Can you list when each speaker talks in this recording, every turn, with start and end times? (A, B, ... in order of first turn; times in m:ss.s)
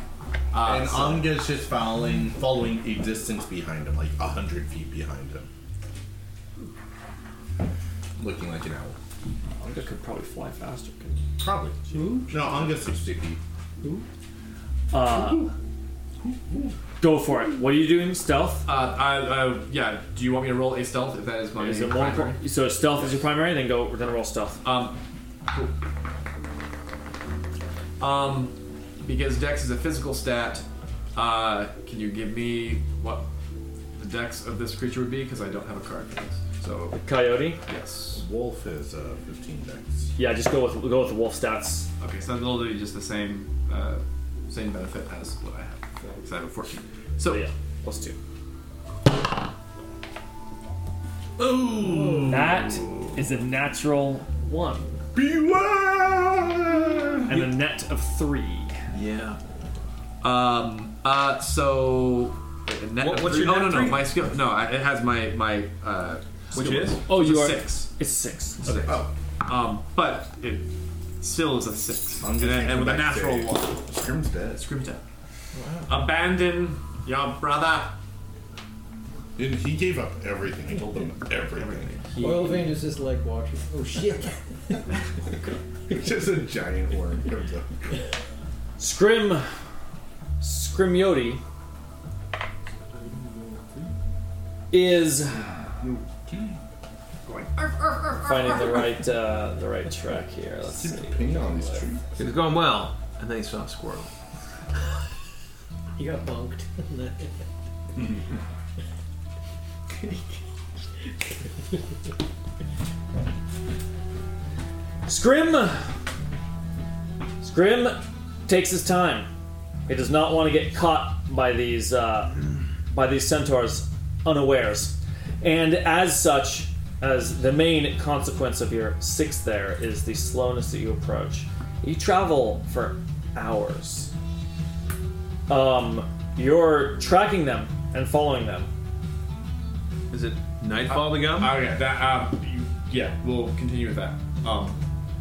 0:00.5-0:01.3 A
0:00.6-0:05.5 B
0:08.2-0:09.0 B
0:09.6-0:11.2 C
0:11.4-0:13.4 B
0:11.9-0:12.4 D
0:14.9-0:15.5 C
0:16.3-0:16.7 B
0:17.0-0:18.6 C
0:18.6-0:22.4 A
0:21.6-0:24.6 C
0:24.6-0:25.0 A
0:28.0-0:33.3 A
0:34.0-0:37.0 A
0:36.9-0:37.6 C
0:37.6-0:38.2 A
0:38.1-0:40.1 B
0:40.2-0:41.9 C
0:42.0-0:47.4 A
0:47.2-0:48.2 C
0:51.4-0:53.0 B
0:52.2-0:55.0 C
0:55.1-0:57.4 B
0:57.3-0:58.7 C
0:58.9-0:59.4 E
1:00.2-1:07.9 A
1:03.0-1:04.1 E
1:06.5-1:07.0 E
1:07.1-1:09.0 C
1:08.6-1:10.7 A
1:08.8-1:09.1 B
1:11.2-1:13.8 A
1:12.2-1:14.6 B
1:14.5-1:15.0 A
1:15.6-1:15.9 D
1:15.9-1:17.9 A
1:19.4-1:21.9 B
1:21.4-1:22.8 A
1:22.2-1:24.9 D
1:25.9-1:28.0 B
1:28.8-1:29.5 C
1:30.4-1:31.4 C
1:34.7-1:35.4 C
1:35.3-1:36.6 B
1:37.3-1:37.7 A
1:38.2-1:41.8 C
1:40.7-1:42.2 B
1:42.2-1:44.1 E
1:46.0-1:47.3 D
1:50.0-1:50.2 D
1:55.1-1:55.8 C
1:57.4-1:59.3 C
1:59.9-2:14.1 C
2:15.5-2:18.7 C
2:20.1-2:21.6 E
2:20.9-2:24.8 A